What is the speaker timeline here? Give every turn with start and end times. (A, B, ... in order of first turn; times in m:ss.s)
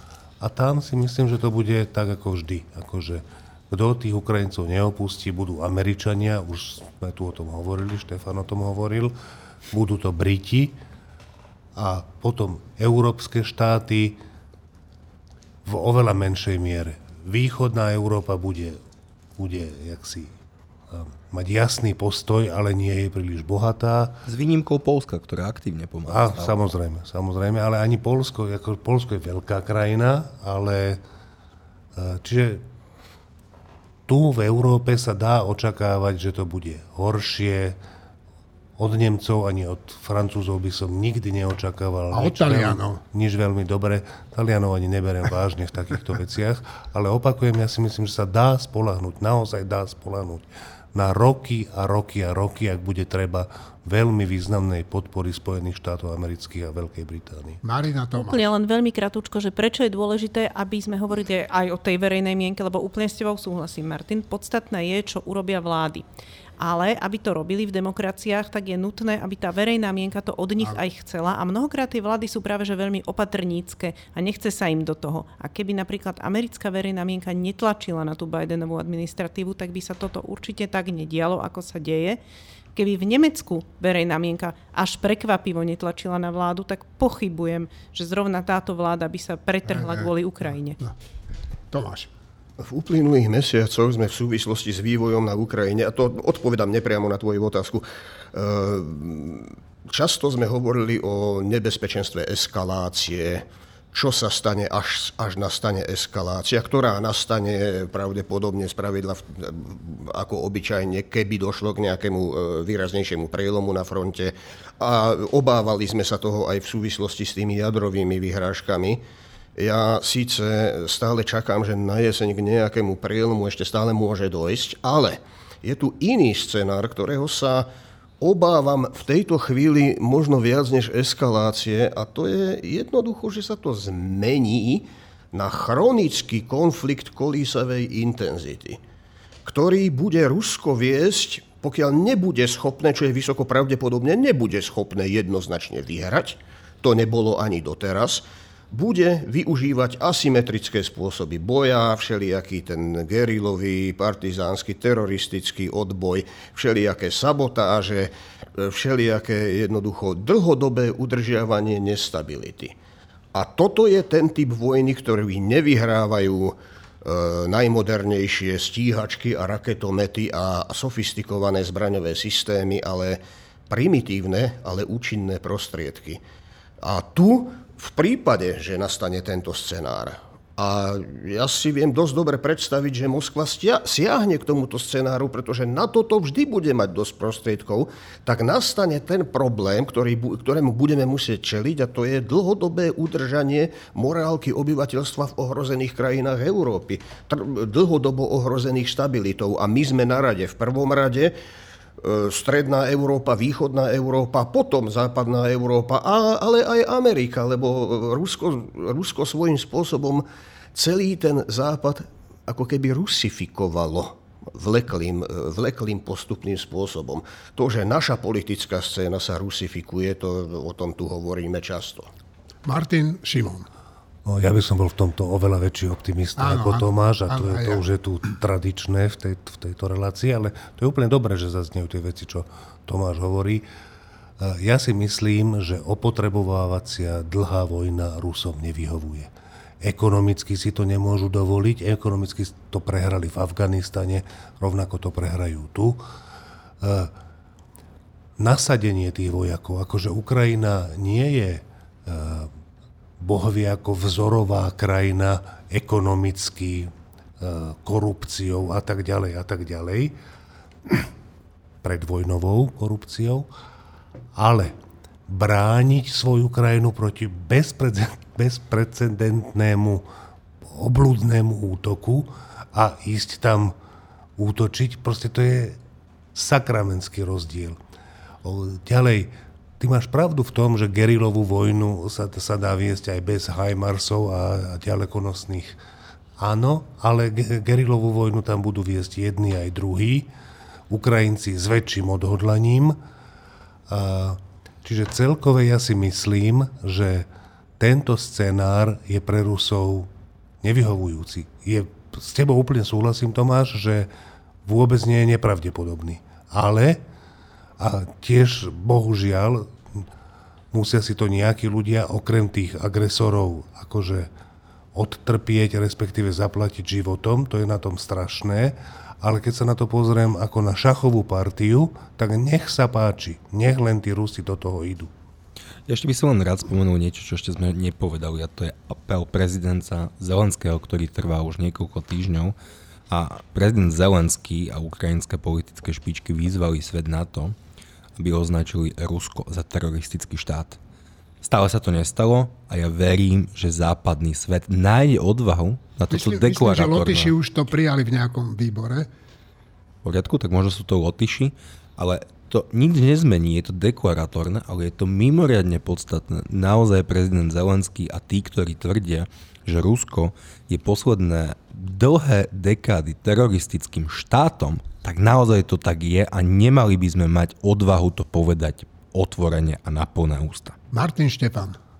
0:00.4-0:09.2 A
0:09.7-0:10.8 A
0:11.8-0:14.2 A
0:15.6-0:18.8 A
0:19.4-0:20.3 A
0:20.9-0:24.2 A
0:24.3-0:26.6 B
0:26.1-0:31.0 A
0:32.0-0:32.6 A
0:34.1-0:37.8 A
0:38.8-0:57.6 A
0:42.1-0:43.0 C
0:57.6-0:58.5 C
0:58.2-1:06.0 D
1:06.6-1:22.2 D
1:22.8-1:30.8 D
1:29.7-1:30.1 C
1:31.7-1:32.1 C
1:32.6-1:59.0 E
1:59.6-2:07.7 E
2:08.2-2:18.8 E
2:19.5-2:42.8 E
2:43.3-2:56.2 E
2:56.8-3:21.4 E
3:22.0-3:42.1 E
3:42.6-3:43.7 C
3:44.3-3:53.6 A
3:46.4-3:47.8 C
3:54.4-4:06.0 A
4:06.8-4:07.1 A
4:08.4-4:12.5 A
4:13.2-4:20.1 A
4:21.8-4:23.5 A
4:24.4-4:24.7 A
4:25.3-4:30.0 A
4:30.6-4:33.7 A
4:34.4-4:35.8 A
4:36.4-4:37.8 A
4:38.4-4:45.8 A
4:46.4-4:50.3 A
4:50.9-4:53.0 A
4:53.9-4:57.3 A
4:57.8-5:00.1 A
5:00.6-5:04.1 A
5:04.6-5:07.0 A
5:07.8-5:10.1 A
5:10.7-5:14.3 A
5:15.0-5:25.1 A
5:25.9-5:32.6 B
5:33.1-5:37.6 B
5:38.2-5:40.8 B
5:41.4-5:47.3 B
5:46.1-5:49.1 C
5:50.0-6:10.8 B
6:10.9-6:11.8 C